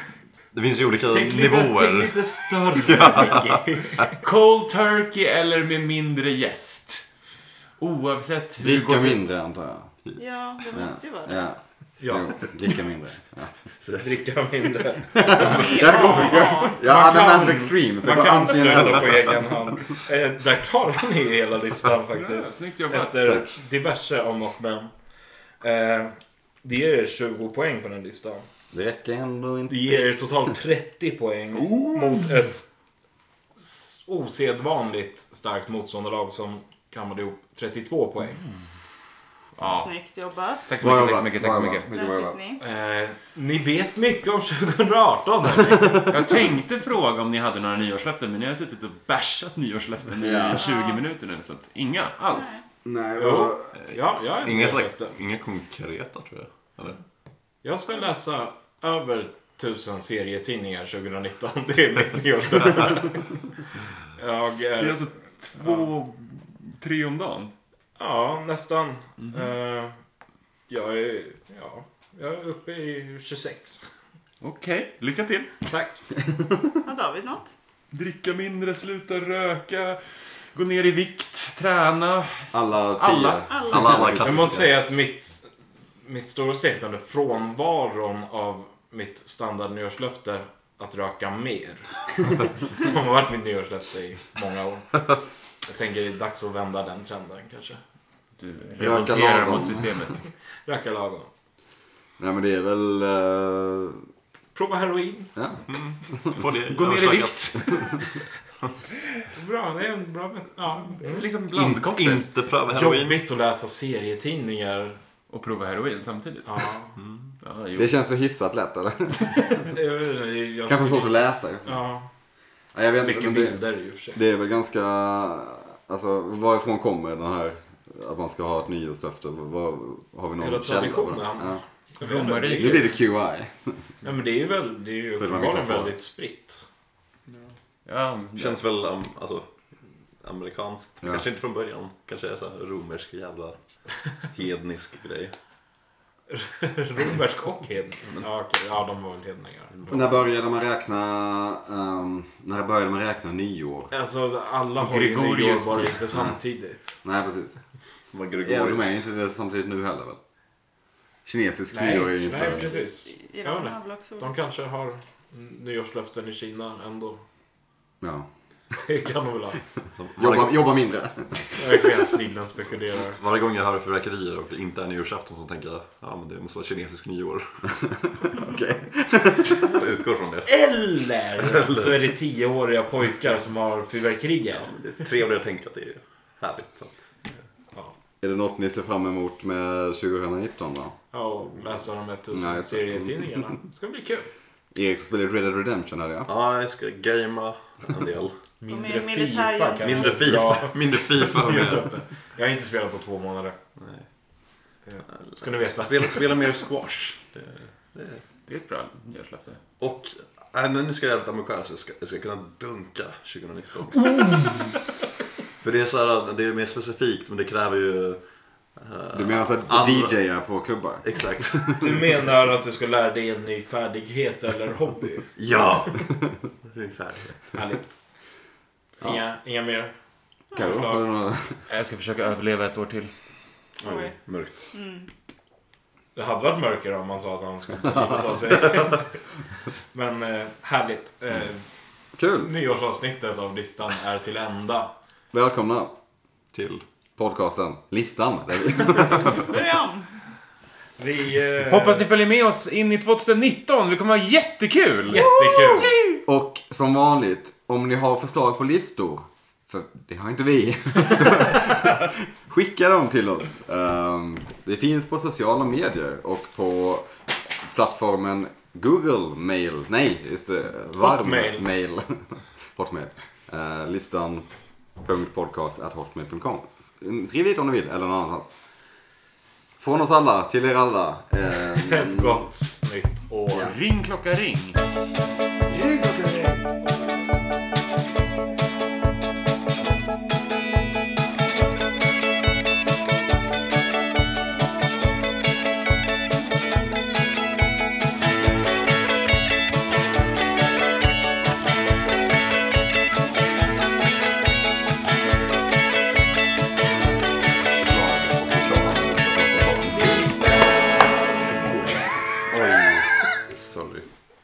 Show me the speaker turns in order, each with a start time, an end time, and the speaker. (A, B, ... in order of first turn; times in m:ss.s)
0:00.5-0:02.2 A
0:01.1-0:04.1 B
0:02.8-0:03.6 A
0:04.2-0:07.1 C
0:07.8-0:09.2 C
0:08.6-0:09.9 D
0:10.2-0:11.4 E
0:10.8-0:13.5 D
0:12.0-0:12.4 B
0:14.0-0:24.9 B
0:15.1-0:19.3 D
0:15.4-0:16.8 E
0:22.1-0:23.4 C
0:25.6-0:28.5 B
0:28.7-0:30.2 D
0:29.7-0:32.7 B
0:33.6-0:38.4 B
0:39.6-0:39.9 C
0:39.6-0:40.6 E
0:40.7-0:41.9 C
0:40.8-0:42.4 D
0:41.9-0:42.6 E
0:42.6-0:46.2 B
0:45.7-0:46.1 D
0:46.1-0:52.6 C
0:50.2-0:50.6 D
0:50.5-0:51.0 E
0:52.3-0:52.6 E
0:52.8-0:53.7 D
0:53.2-0:55.2 B
0:53.7-0:57.0 A
0:57.6-1:03.4 B
1:04.1-1:05.9 B
1:04.8-1:07.5 C
1:08.0-1:09.9 B
1:10.7-1:13.8 B
1:14.4-1:15.6 C
1:15.7-1:15.9 B
1:16.8-1:17.5 E
1:17.9-1:23.5 C
1:22.5-1:24.6 D
1:23.5-1:24.1 E
1:23.7-1:24.7 A
1:24.2-1:25.5 B
1:26.0-1:35.0 B
1:35.6-1:37.8 B
1:38.4-1:40.2 C
1:38.8-1:40.1 D
1:40.7-1:41.3 B
1:42.2-1:44.0 D
1:44.6-1:45.3 B
1:45.4-1:46.4 D
1:45.7-1:47.5 A
1:46.7-1:48.1 C
1:49.3-1:51.2 B
1:51.0-1:52.3 C
1:51.4-1:53.2 A
1:52.7-1:55.0 B
1:55.3-1:56.7 C
1:56.5-1:57.0 B
1:57.0-1:57.3 A
1:57.4-1:57.9 C
1:57.8-1:59.5 D
1:59.6-2:02.1 B
2:00.7-2:01.8 D
2:02.8-2:03.6 D
2:03.0-2:04.2 B
2:04.1-2:11.6 D
2:10.4-2:12.9 B
2:12.0-2:13.0 C
2:12.4-2:13.8 D
2:14.0-2:16.6 B
2:15.2-2:15.9 D
2:17.9-2:18.6 C
2:18.4-2:23.6 A
2:24.3-2:25.3 A
2:26.3-2:30.1 B
2:29.9-2:33.9 D
2:33.9-2:37.0 B
2:34.8-2:36.1 C
2:37.0-2:37.6 D
2:38.1-2:39.0 A
2:38.4-2:40.2 D
2:41.3-2:42.7 D
2:41.7-2:47.2 B
2:42.5-2:44.3 E
2:48.0-2:48.3 D
2:48.8-2:49.6 B
2:50.0-2:50.6 A
2:50.2-2:51.9 D
2:51.6-2:53.2 B
2:53.1-2:57.6 A
2:57.9-2:59.6 D
2:59.5-3:00.5 A
3:00.5-3:04.7 B
3:01.4-3:02.0 A
3:04.5-3:07.1 A
3:08.2-3:11.0 D
3:11.1-3:14.3 B
3:12.3-3:13.4 D
3:14.7-3:16.3 D
3:16.3-3:18.4 A
3:18.6-3:23.6 B
3:18.7-3:20.4 E
3:19.8-3:22.0 A
3:23.8-3:24.1 A
3:24.9-3:26.2 B
3:25.1-3:28.2 A
3:28.5-3:29.6 C
3:29.8-3:34.4 A
3:35.6-3:40.2 A
3:39.1-3:41.8 D
3:41.0-3:42.1 A
3:41.8-3:45.3 B
3:45.4-3:46.1 A
3:46.6-3:47.5 A
3:47.5-3:48.0 B
3:49.0-3:49.9 B
3:50.5-3:51.0 B
3:50.6-3:51.6 D
3:51.7-3:53.1 C
3:53.8-3:54.7 A
3:53.8-3:54.2 E
3:54.7-3:55.1 E
3:56.2-3:59.1 B
3:57.9-3:58.2 D
3:59.9-4:01.6 B
4:02.2-4:02.5 D
4:02.4-4:04.9 B
4:05.3-4:05.9 D
4:06.5-4:06.8 A
4:07.2-4:09.4 D
4:09.3-4:10.1 E
4:11.0-4:12.0 B
4:11.6-4:15.2 C
4:15.1-4:15.9 B
4:15.2-4:16.2 E
4:16.2-4:27.1 D
4:27.6-4:34.4 D
4:31.0-4:31.6 B
4:35.0-4:38.5 D
4:39.8-4:42.4 D
4:41.8-4:43.8 B
4:43.6-4:44.8 C
4:45.7-4:46.6 B
5:07.8-5:10.5 A
5:12.4-5:14.1 A